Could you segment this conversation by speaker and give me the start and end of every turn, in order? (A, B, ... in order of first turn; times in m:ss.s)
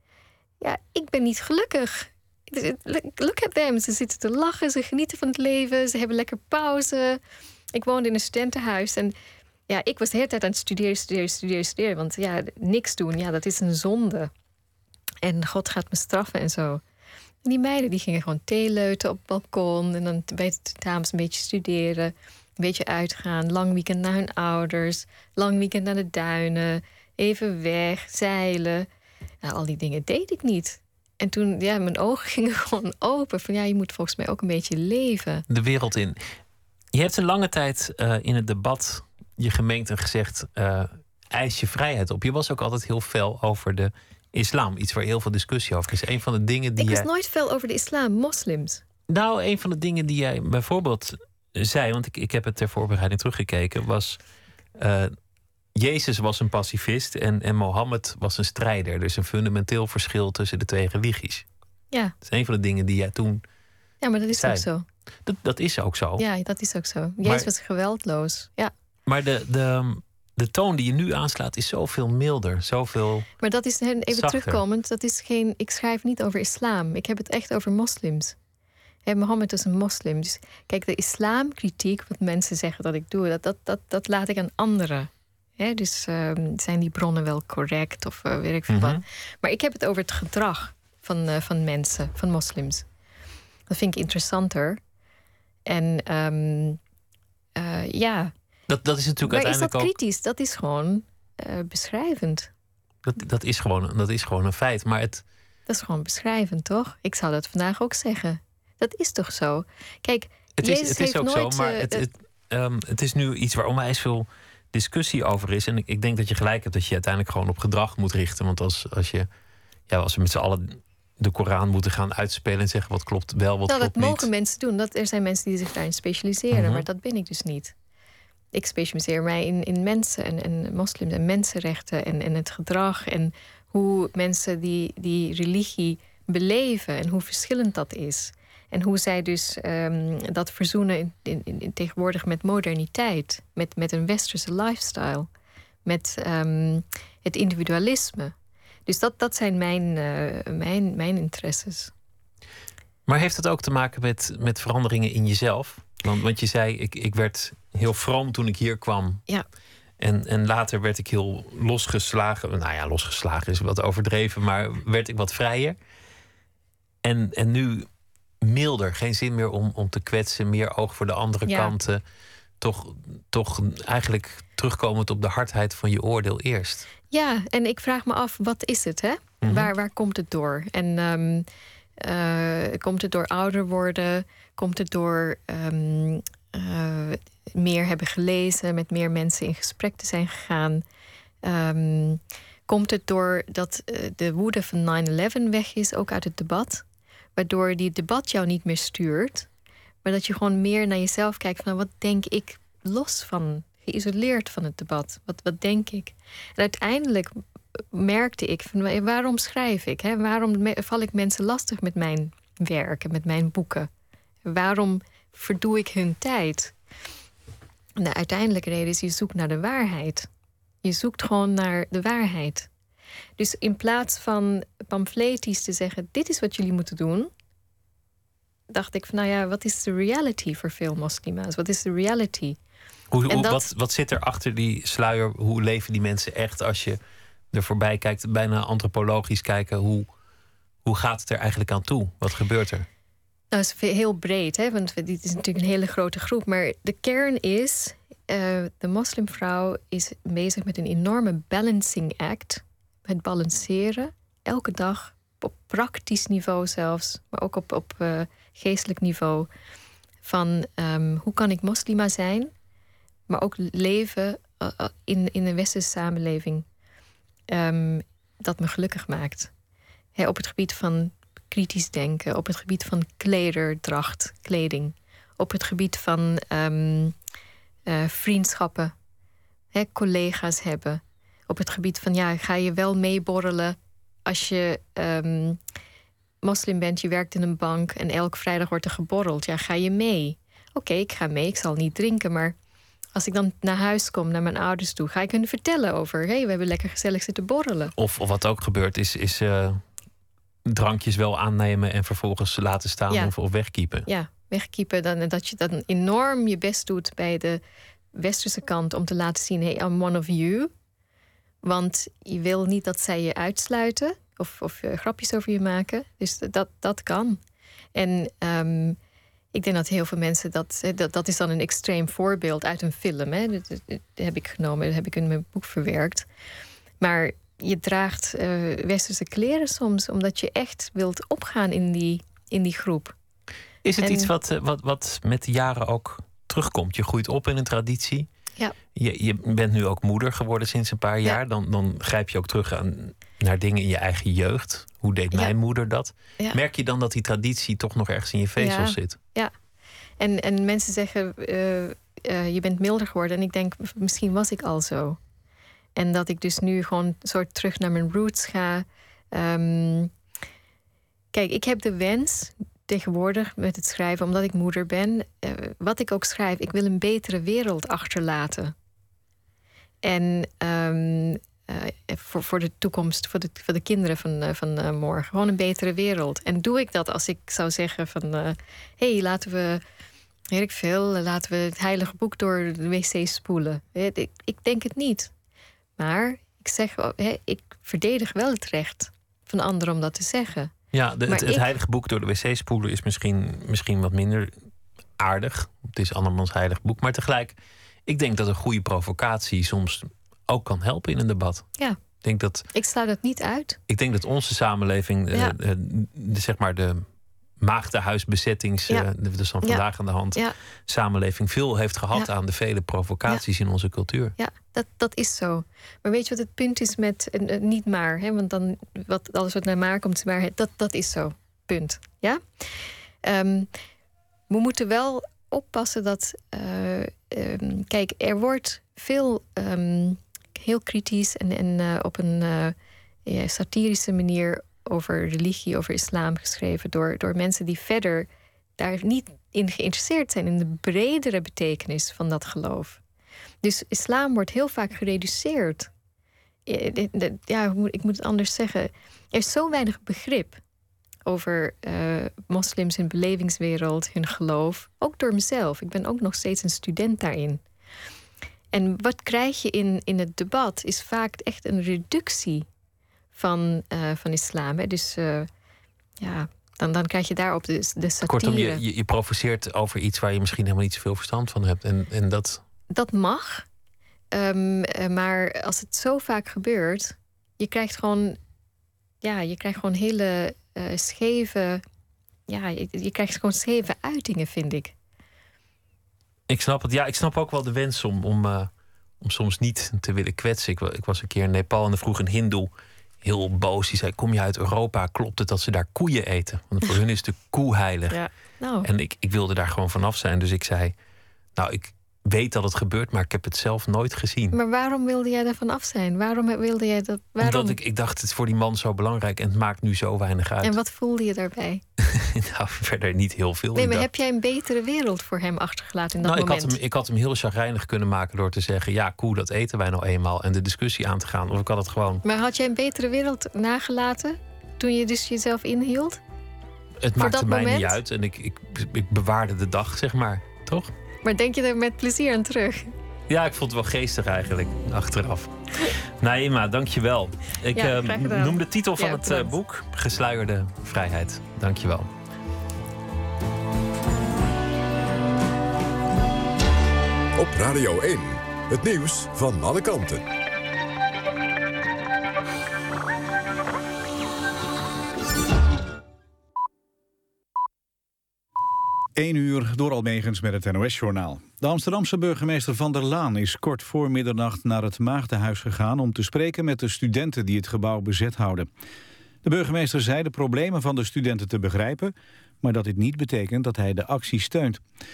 0:00.6-0:07.2 A
0:07.7-0:09.1 A
0:09.7-0:14.3 A
0:15.2-0:16.8 A
0:17.4-0:28.9 A
0:29.4-0:35.4 A
0:35.5-0:36.2 B
0:36.9-0:47.1 B
0:46.8-0:48.8 A
0:49.1-0:54.2 B
0:54.8-0:55.1 B
0:55.8-1:01.4 B
1:02.2-1:03.4 B
1:04.0-1:04.8 A
1:04.3-1:04.6 B
1:05.2-1:06.2 B
1:06.2-1:08.7 A
1:09.1-1:13.3 B
1:13.4-1:18.4 A
1:14.1-1:14.6 B
1:19.0-1:32.8 A
1:28.7-1:29.0 B
1:33.7-1:34.8 A
1:35.7-1:36.8 A
1:37.6-1:38.3 A
1:38.7-1:39.9 B
1:39.2-1:42.5 A
1:43.0-1:45.2 B
1:45.7-1:52.0 A
1:50.6-1:59.3 B
1:59.9-2:04.3 B
2:03.7-2:07.7 A
2:06.5-2:06.8 B
2:08.5-2:25.3 A
2:25.8-2:28.3 A
2:28.9-2:31.9 A
2:33.1-2:39.2 B
2:40.0-2:45.8 B
2:47.0-2:47.9 B
2:48.4-2:52.0 B
2:51.5-2:51.7 A
2:52.6-2:56.9 B
2:57.1-3:01.4 A
2:59.4-2:59.7 B
3:02.0-3:10.8 A
3:11.4-3:16.8 A
3:17.4-3:19.5 A
3:20.0-3:27.3 A
3:27.9-3:33.9 A
3:34.4-3:36.7 A
3:38.0-3:40.3 A
3:40.8-3:42.7 A
3:43.4-3:47.3 A
3:48.7-3:52.6 A
3:53.1-3:57.0 B
3:53.3-3:53.6 A
3:57.5-4:00.0 B
4:00.8-4:02.8 B
4:03.5-4:19.5 A
4:20.2-4:22.5 A
4:23.3-4:26.6 A
4:27.5-4:29.5 A
4:30.2-4:37.2 A
4:37.9-4:38.9 A
4:39.7-4:45.6 A
4:46.4-4:52.5 A
4:53.1-4:57.9 A
4:58.0-4:59.8 B
5:00.7-5:04.1 B
5:04.0-5:07.6 A
5:08.1-5:10.7 A
5:11.6-5:17.4 A
5:17.9-5:19.0 A
5:19.5-5:26.3 A
5:27.0-5:33.1 A
5:33.8-5:38.3 B
5:34.0-5:34.3 A
5:38.9-5:49.2 B
5:48.6-5:49.5 A
5:50.2-5:55.2 A
5:56.0-6:00.1 A
6:01.3-6:08.7 A
6:10.0-6:19.8 A
6:20.5-6:25.3 A
6:26.0-6:30.7 A
6:30.9-6:34.5 B
6:31.3-6:31.7 A
6:35.2-6:37.6 B
6:38.1-6:41.7 B
6:42.2-6:42.6 B
6:42.7-6:43.8 A
6:43.9-6:47.0 B
6:47.6-6:54.3 B
6:54.4-7:03.7 A
7:04.5-7:12.7 A
7:13.2-7:23.0 A
7:23.6-7:25.9 A
7:26.7-7:30.6 A
7:31.2-7:37.6 A
7:38.7-7:42.7 A
7:43.3-7:45.5 A
7:46.2-7:48.8 A
7:48.2-7:52.6 B
7:52.9-7:53.6 A
7:54.3-7:58.4 A
7:59.2-8:01.8 A
8:02.5-8:04.9 A
8:06.5-8:08.7 B
8:09.2-8:12.7 B
8:13.2-8:18.2 B
8:18.1-8:18.9 A
8:18.8-8:20.9 B
8:21.6-8:24.6 B
8:24.5-8:27.8 A
8:27.4-8:30.8 B
8:30.6-8:31.8 A
8:32.0-8:34.1 B
8:33.8-8:36.8 A
8:36.2-8:42.2 B
8:42.2-8:46.2 A
8:47.0-8:50.9 B
8:47.2-8:48.0 A
8:51.2-8:52.9 A
8:53.3-9:02.1 B
8:57.7-8:59.5 A
9:07.4-9:10.2 C
9:19.2-9:28.7 D
9:29.4-9:34.8 D